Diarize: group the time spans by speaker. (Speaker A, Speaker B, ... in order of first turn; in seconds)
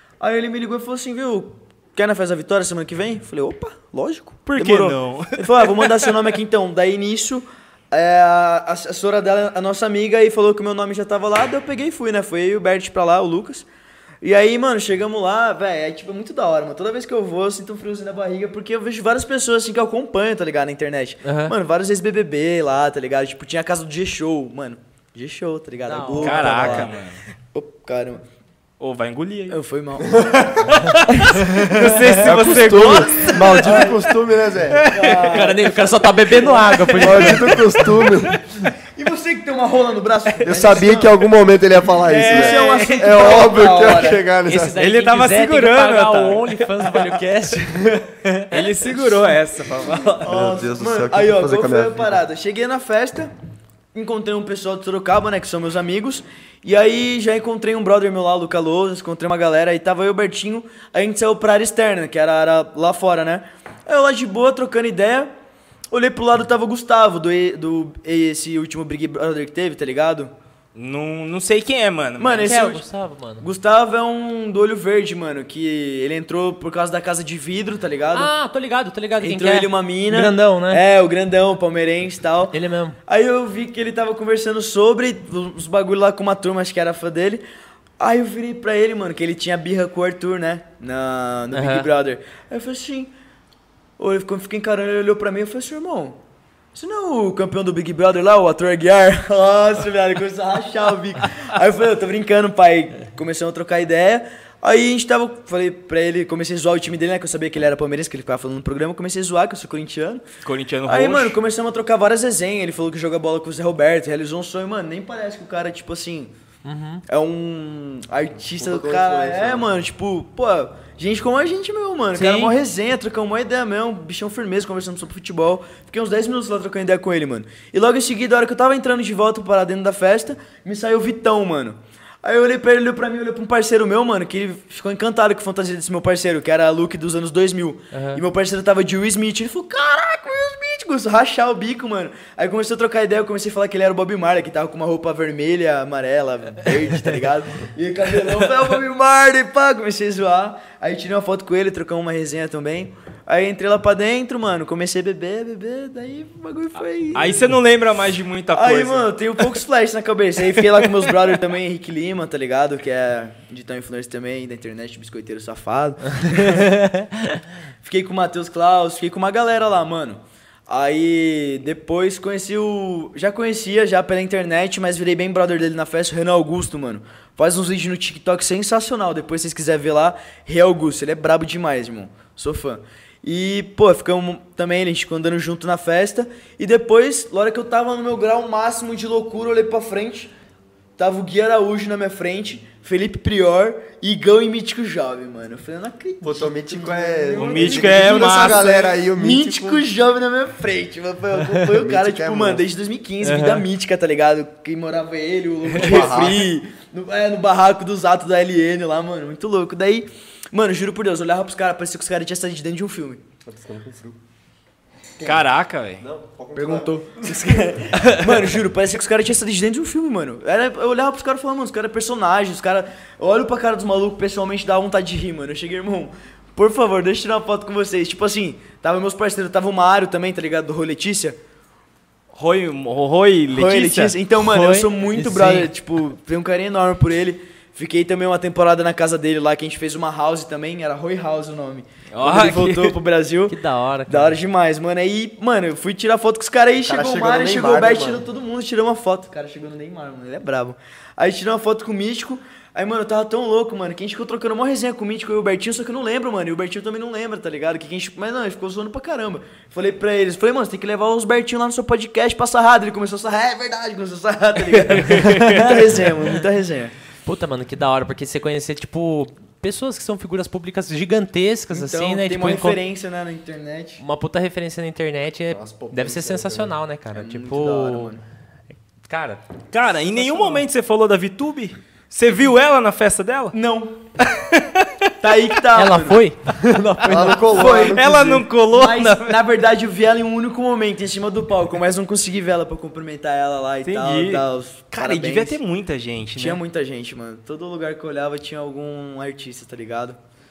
Speaker A: 0.2-13.7, 14.2-26.9, 27.5-28.2, 29.5-30.4, 33.2-34.0, 34.9-37.3, 38.9-41.2, 42.1-44.2, 50.2-53.3, 53.9-65.3, 65.9-70.3, 72.2-72.8, 73.4-78.3, 79.2-87.4, 88.0-93.1, 94.0-96.2, 96.7-110.2, 110.8-116.3, 117.1-157.5, 158.5-166.8, 167.8-190.3, 191.0-213.2, 216.5-231.4, 233.5-266.9, 271.7-274.0, 277.1-278.2, 280.2-280.6, 283.5-284.0, 285.2-286.2, 287.5-288.0, 288.7-295.6, 296.4-300.2
Speaker B: 4.5-6.2, 26.1-27.2, 28.8-29.6, 30.7-33.9, 34.7-35.2, 38.0-38.4, 42.0-43.2, 44.8-47.1, 48.2-50.3, 70.7-72.6, 110.4-111.4, 157.1-159.1, 197.3-198.7, 215.2-216.0, 218.0-218.2, 232.3-234.2, 242.1-243.0, 264.8-265.8, 279.7-283.5, 284.2-284.9, 287.1-289.4, 293.8-296.6
Speaker C: 21.2-21.5, 25.8-26.9, 31.4-33.1, 35.1-38.0, 44.5-48.9, 72.4-73.5, 78.1-80.8, 82.5-83.0, 91.5-91.9, 116.6-117.0, 122.1-122.5, 137.9-138.2, 166.3-167.4, 203.2-203.7, 234.5-235.7, 243.5-244.4, 267.2-272.8, 274.0-278.1, 279.0-279.4, 285.7-287.7
Speaker D: 30.1-30.7, 32.2-34.9, 37.0-38.3, 40.4-44.8, 49.8-52.2, 118.5-119.8, 196.2-199.8, 201.7-202.7, 205.7-206.5, 213.4-214.2, 216.0-217.8, 246.8-248.2, 275.5-276.8, 287.0-288.5